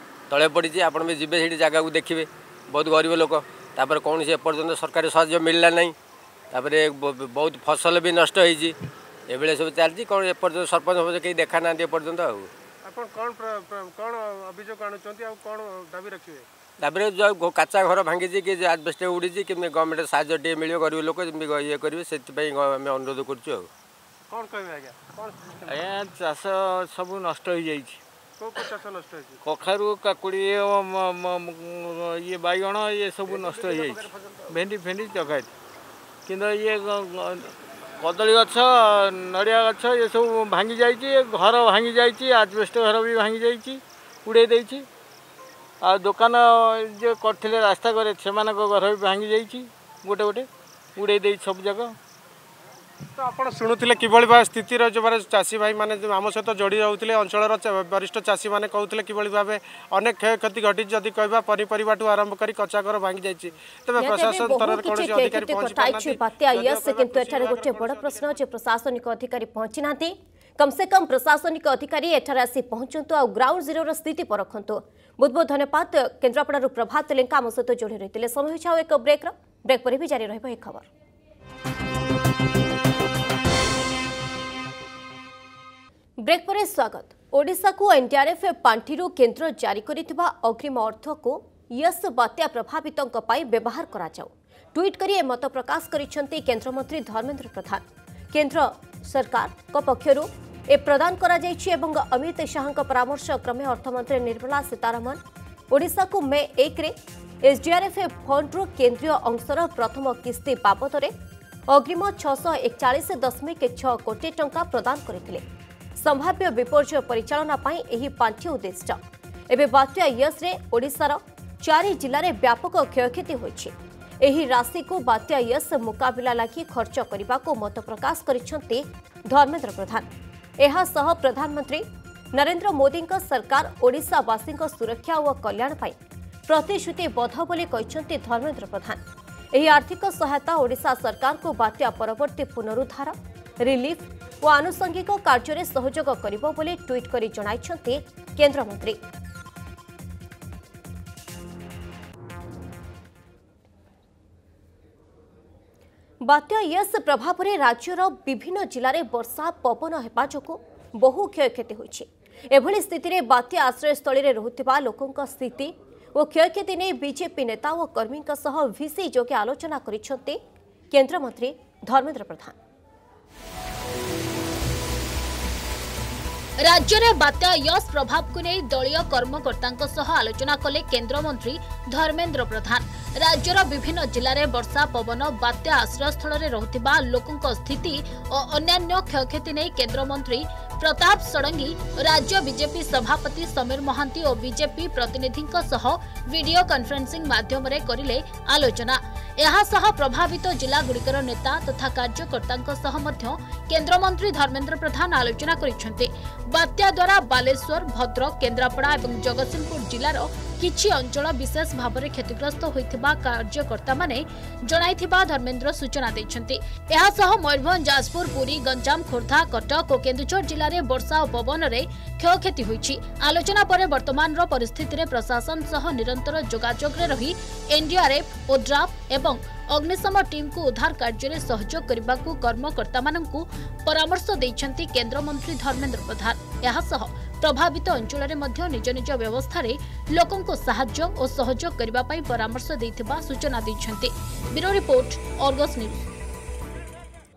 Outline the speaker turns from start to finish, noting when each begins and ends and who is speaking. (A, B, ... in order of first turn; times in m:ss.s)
0:00.3-0:05.9 A
0:06.5-0:08.8 A
0:09.3-0:12.5 A
0:12.8-0:16.4 B
0:16.8-0:23.7 A
0:24.3-0:25.8 B
0:25.7-0:28.0 C
0:28.4-0:29.4 B
0:29.4-0:35.5 C
0:33.4-0:33.9 B
0:36.3-0:37.4 C
0:38.0-0:44.8 C
0:45.8-0:51.9 C
0:53.2-1:08.2 B
1:04.0-1:20.9 D
1:26.2-1:45.2 D
1:45.7-1:51.1 D
1:51.7-1:55.4 D
1:56.0-2:10.1 D
2:10.6-2:15.9 D
2:16.5-2:19.0 D
2:19.5-2:29.0 D
2:36.2-2:50.4 D
2:50.9-2:52.5 D
2:56.6-4:06.1 E